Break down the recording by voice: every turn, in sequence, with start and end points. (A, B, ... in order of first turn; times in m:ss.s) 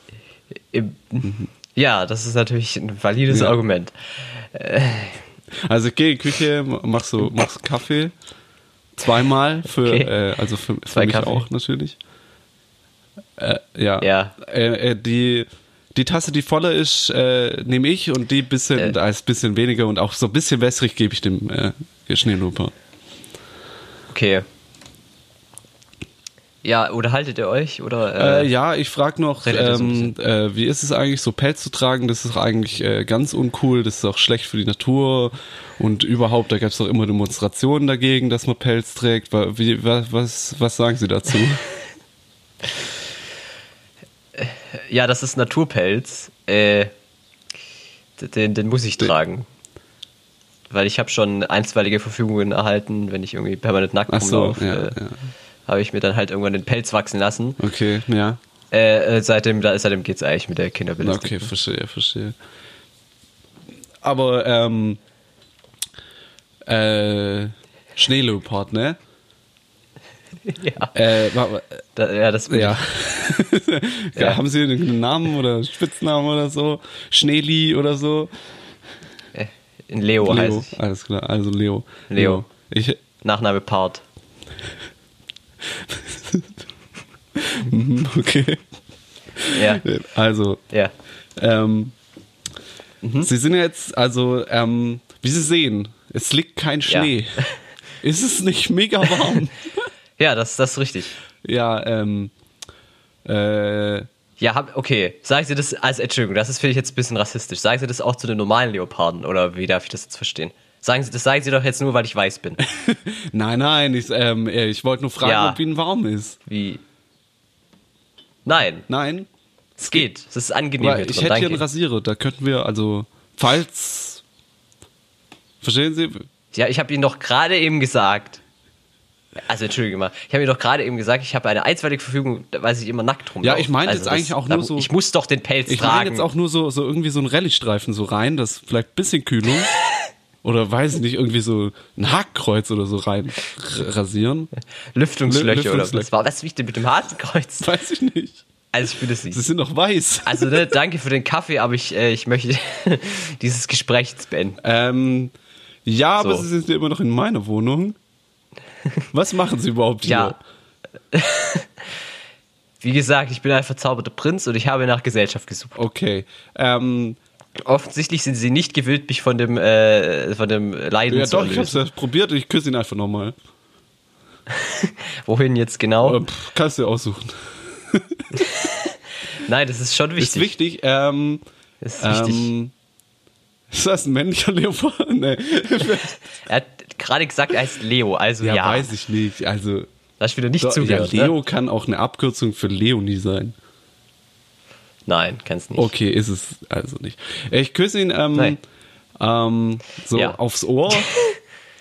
0:00.7-0:05.2 A
0:01.2-0:01.5 B
0:03.3-0:03.6 B
0:05.6-0:08.1 B
0:09.0-0:12.0 B
0:09.7-0:10.1 A
0:10.9-0:11.5 A
0:13.4-0:22.7 B
0:14.0-0:14.3 A
0:24.1-0:24.4 A
0:26.6-0:28.5 A
0:28.2-0:41.6 B
0:29.4-0:30.1 A
0:44.4-0:46.9 A
0:48.2-0:49.5 A
0:50.7-0:55.0 A
0:54.1-0:55.2 B
0:55.7-0:57.6 A
0:57.6-0:58.4 B
0:58.7-1:01.5 A
1:01.0-1:02.3 B
1:04.0-1:05.0 B
1:06.6-1:09.0 B
1:10.5-1:10.9 A
1:10.9-1:11.8 B
1:12.0-1:12.8 A
1:12.5-1:18.3 B
1:19.3-1:20.7 A
1:20.2-1:23.0 B
1:22.1-1:22.4 A
1:23.2-1:24.0 A
1:25.7-1:26.5 B
1:27.3-1:28.6 B
1:29.4-1:30.6 B
1:29.5-1:29.8 A
1:31.4-1:31.9 B
1:33.0-1:33.3 A
1:33.2-1:37.5 B
1:36.9-1:37.5 A
1:38.0-1:39.9 B
1:40.2-1:41.1 A
1:41.4-1:42.3 B
1:43.2-1:44.1 B
1:44.4-1:52.6 A
1:52.7-1:56.4 B
1:55.2-1:55.6 A
1:56.4-1:56.8 A
1:58.4-1:58.8 A
1:58.9-1:59.3 B
1:59.8-2:01.6 A
2:00.8-2:04.2 B
2:05.6-2:06.2 B
2:06.5-2:08.4 A
2:09.5-2:16.3 A
2:13.4-2:14.9 B
2:15.7-2:19.7 B
2:20.4-2:24.5 B
2:24.9-2:27.7 A
2:25.3-2:26.1 B
2:27.6-2:28.4 B
2:28.7-2:29.4 A
2:29.3-2:30.7 B
2:30.2-2:34.6 A
2:34.6-2:35.3 B
2:35.8-2:38.0 B
2:36.2-2:36.4 A
2:39.1-2:40.4 B
2:40.0-2:40.4 A
2:41.1-2:41.8 A
2:42.8-2:45.8 A
2:45.7-2:47.2 B
2:47.6-2:51.8 A
2:51.1-2:53.4 B
2:54.5-2:56.2 A
2:56.0-2:58.4 B
2:58.4-3:00.5 A
3:00.2-3:01.4 B
3:01.8-3:02.5 A
3:02.0-3:02.7 B
3:03.7-3:06.1 B
3:05.9-3:08.9 A
3:08.4-3:09.9 B
3:10.2-3:11.4 A
3:10.6-3:13.5 B
3:15.1-3:15.9 A
3:15.7-3:18.6 B
3:19.2-3:21.1 B
3:20.9-3:21.4 A